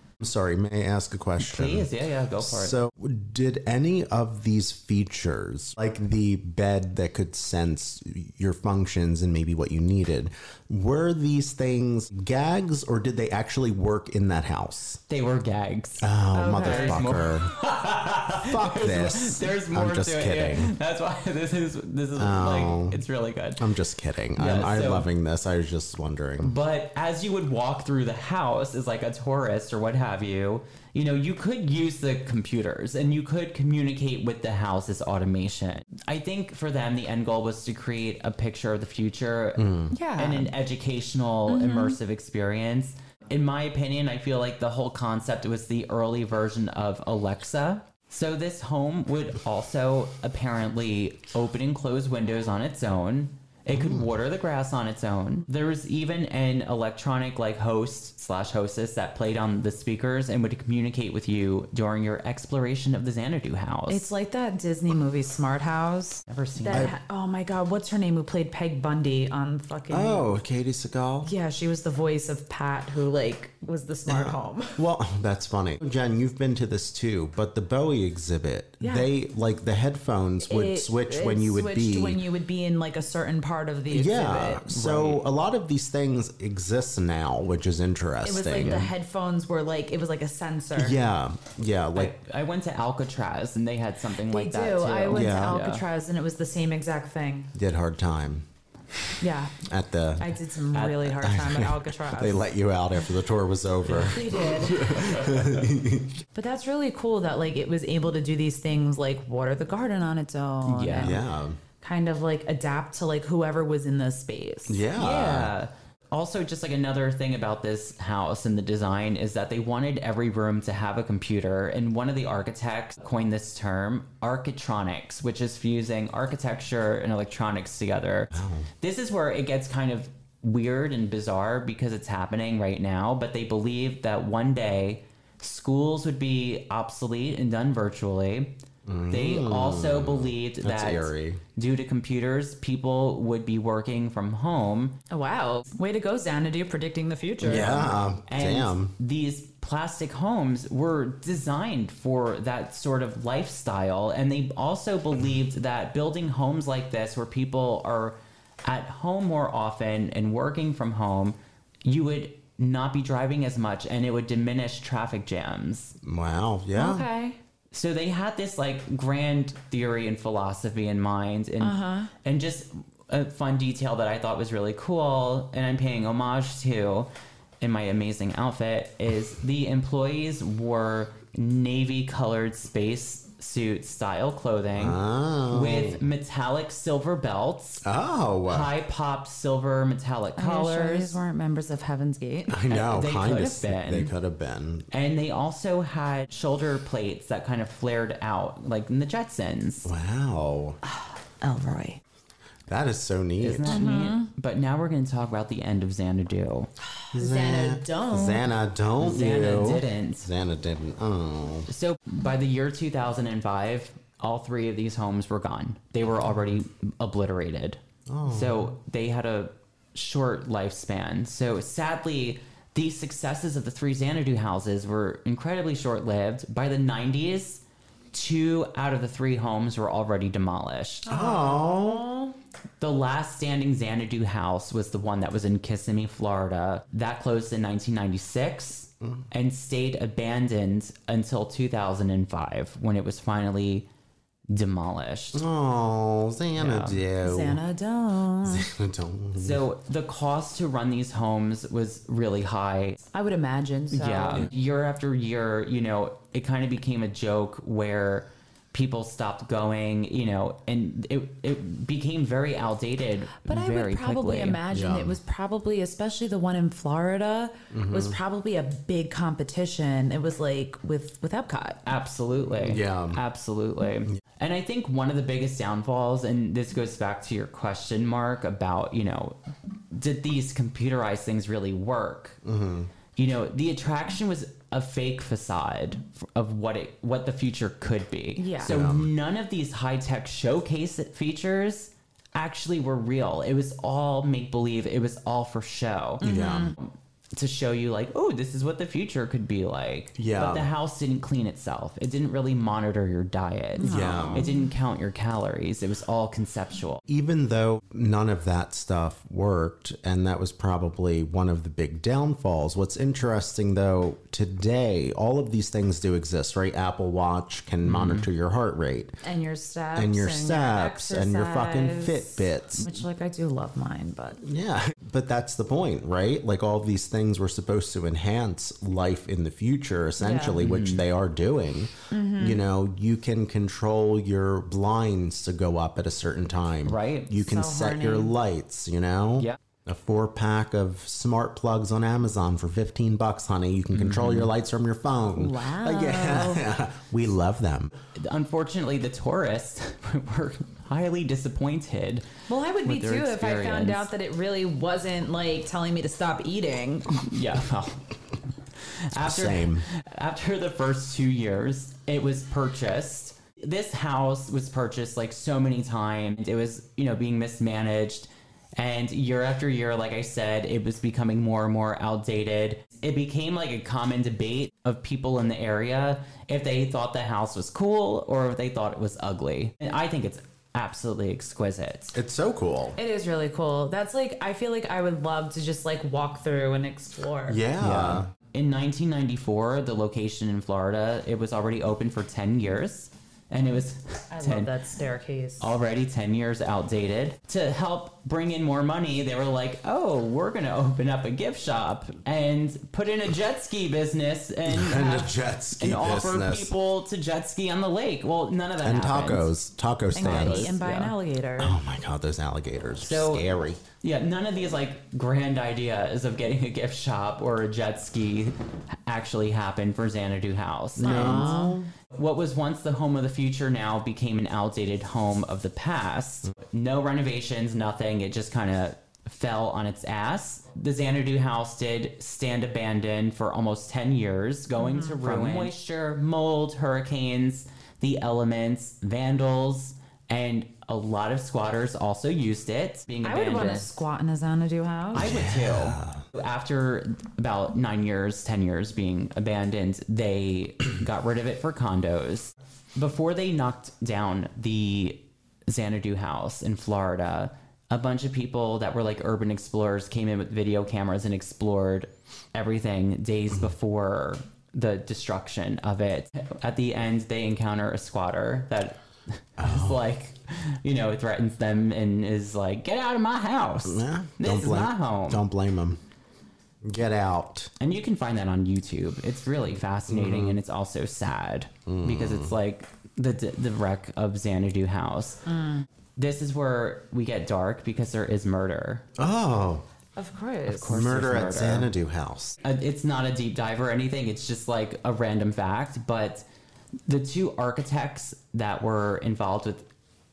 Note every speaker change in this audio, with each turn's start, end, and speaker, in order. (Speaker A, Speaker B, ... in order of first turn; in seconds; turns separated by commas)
Speaker A: 0.2-15.0, Speaker B: 1.4-2.8, Speaker B: 15.1-23.6, Speaker A: 16.0-17.5, Speaker C: 16.3-17.1, Speaker A: 18.3-20.7, Speaker A: 22.1-23.0, Speaker A: 23.6-26.5, Speaker B: 24.4-25.1, Speaker B: 26.4-64.1, Speaker A: 39.6-39.9, Speaker C: 39.9-40.5, Speaker C: 41.5-42.0, Speaker A: 53.7-54.1, Speaker C: 63.9-70.3, Speaker B: 66.3-66.9, Speaker A: 66.7-66.9, Speaker A: 69.9-71.3, Speaker C: 71.2-74.8, Speaker A: 74.1-82.2, Speaker C: 78.8-79.1, Speaker C: 80.4-84.7, Speaker A: 83.9-88.9, Speaker B: 84.7-85.2, Speaker C: 88.2-91.0, Speaker A: 90.7-92.1, Speaker B: 91.9-95.8, Speaker C: 94.3-97.5, Speaker A: 95.1-95.6, Speaker A: 97.5-98.5, Speaker C: 99.2-99.6, Speaker A: 99.6-100.4, Speaker C: 100.2-102.5, Speaker B: 100.7-101.1, Speaker A: 101.1-106.2, Speaker B: 103.9-104.1, Speaker C: 104.0-105.3, Speaker B: 104.9-105.4, Speaker C: 106.3-111.2, Speaker B: 110.6-111.2, Speaker A: 111.0-111.6, Speaker C: 111.8-114.8, Speaker A: 114.7-115.5, Speaker B: 115.0-145.0, Speaker A: 128.3-128.7, Speaker A: 138.8-141.4, Speaker C: 145.1-148.0, Speaker A: 147.4-148.9, Speaker B: 147.5-165.9, Speaker A: 166.0-167.1, Speaker C: 166.7-167.4, Speaker B: 167.7-187.8, Speaker C: 171.6-172.1, Speaker A: 184.8-186.0, Speaker A: 187.8-188.7, Speaker B: 188.4-191.2, Speaker C: 190.4-192.6, Speaker A: 192.5-194.9, Speaker B: 192.7-194.1, Speaker B: 194.9-199.9, Speaker A: 199.8-200.8, Speaker C: 201.0-202.0, Speaker A: 202.7-203.8, Speaker B: 203.4-206.7, Speaker C: 203.7-204.3, Speaker C: 207.0-208.5, Speaker A: 207.1-211.7, Speaker B: 209.0-210.3, Speaker B: 211.7-231.1, Speaker A: 218.1-218.7, Speaker C: 231.1-232.3, Speaker A: 231.1-232.1, Speaker B: 232.8-243.9, Speaker B: 244.5-245.4, Speaker A: 245.3-247.6, Speaker B: 246.6-247.0, Speaker C: 247.2-248.7, Speaker A: 248.4-249.6, Speaker B: 249.3-253.0, Speaker C: 253.1-254.5, Speaker B: 253.9-264.6, Speaker C: 263.5-271.8, Speaker A: 264.7-265.2, Speaker A: 267.7-268.2, Speaker B: 271.9-279.4, Speaker A: 272.6-273.2, Speaker B: 279.9-282.4, Speaker A: 282.4-282.9, Speaker B: 283.1-307.0, Speaker C: 288.4-288.8, Speaker A: 288.6-289.1, Speaker C: 296.2-296.8, Speaker A: 296.2-296.8, Speaker A: 300.1-300.7, Speaker C: 303.8-304.7, Speaker A: 303.8-304.4, Speaker A: 307.1-319.1, Speaker B: 317.8-318.3, Speaker C: 319.2-324.4, Speaker A: 319.9-322.9, Speaker A: 324.4-347.9, Speaker C: 330.2-330.6, Speaker B: 330.6-331.0, Speaker C: 332.1-332.6, Speaker B: 336.8-337.4, Speaker C: 337.3-338.3, Speaker B: 343.9-344.5, Speaker C: 345.4-346.7, Speaker B: 348.1-352.3, Speaker C: 352.5-357.2, Speaker B: 352.8-354.1, Speaker B: 357.2-358.1, Speaker B: 358.8-382.1, Speaker A: 359.1-359.8, Speaker A: 382.1-383.0, Speaker C: 383.0-387.6, Speaker A: 387.4-388.3, Speaker B: 387.8-394.7, Speaker C: 394.3-395.8, Speaker B: 395.6-409.5, Speaker A: 404.6-406.7, Speaker A: 408.8-410.8, Speaker C: 410.1-411.7, Speaker B: 410.2-411.1, Speaker A: 411.6-413.8, Speaker B: 413.0-413.5, Speaker B: 414.0-418.5, Speaker B: 419.1-444.0, Speaker A: 421.0-421.9, Speaker C: 421.0-421.8, Speaker C: 434.7-435.7, Speaker C: 443.2-445.4, Speaker A: 445.1-446.2, Speaker B: 445.1-475.4, Speaker A: 469.6-470.0, Speaker A: 473.8-476.0, Speaker A: 476.8-477.7, Speaker B: 477.8-485.4, Speaker A: 480.1-480.6, Speaker A: 481.9-482.5, Speaker C: 485.5-485.9, Speaker B: 486.2-489.0, Speaker A: 489.2-489.8, Speaker C: 490.1-490.9, Speaker B: 490.7-491.9, Speaker A: 490.8-492.6, Speaker B: 492.6-496.4, Speaker B: 497.1-499.9